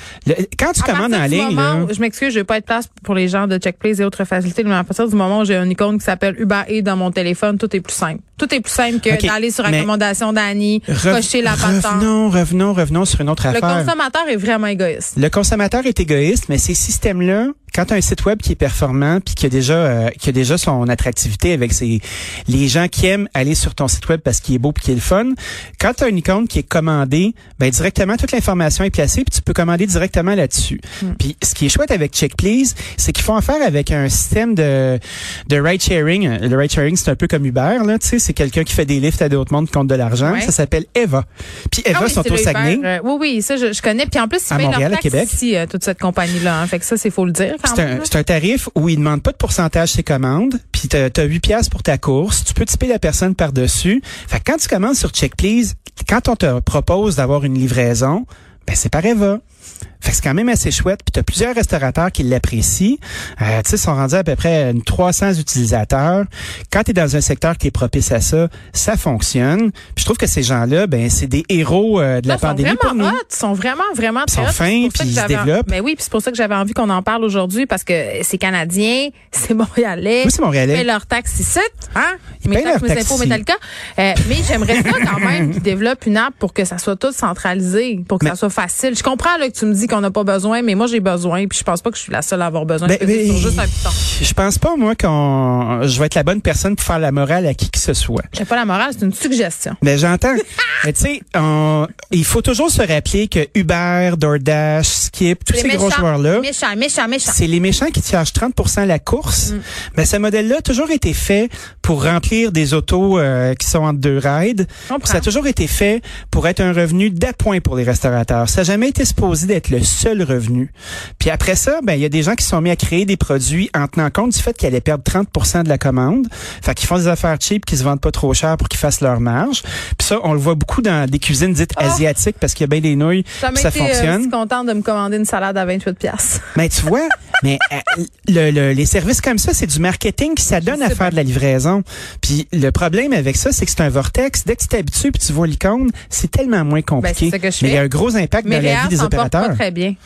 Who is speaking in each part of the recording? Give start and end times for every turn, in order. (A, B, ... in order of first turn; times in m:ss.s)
0:00.2-0:01.9 A
0:00.8-0:12.1 B
0:09.0-0:09.9 A
0:10.9-0:13.9 A
0:13.5-0:15.1 B
0:15.2-0:42.9 A
0:40.2-0:40.5 B
0:41.9-0:48.1 B
0:44.5-0:45.4 A
0:47.6-0:59.4 A
1:00.0-1:13.2 A
1:12.3-1:34.0 B
1:14.3-1:15.7 A
1:20.2-1:20.8 A
1:22.4-1:23.4 A
1:24.7-1:25.6 A
1:32.8-1:38.3 A
1:38.3-1:39.8 B
1:39.8-1:46.5 A
1:45.5-1:47.4 B
1:47.2-2:14.3 A
1:54.9-1:55.3 B
2:11.8-2:12.0 B
2:13.4-2:16.5 B
2:16.5-2:29.6 A
2:20.5-2:21.2 B
2:27.0-2:27.8 B
2:28.4-2:30.0 B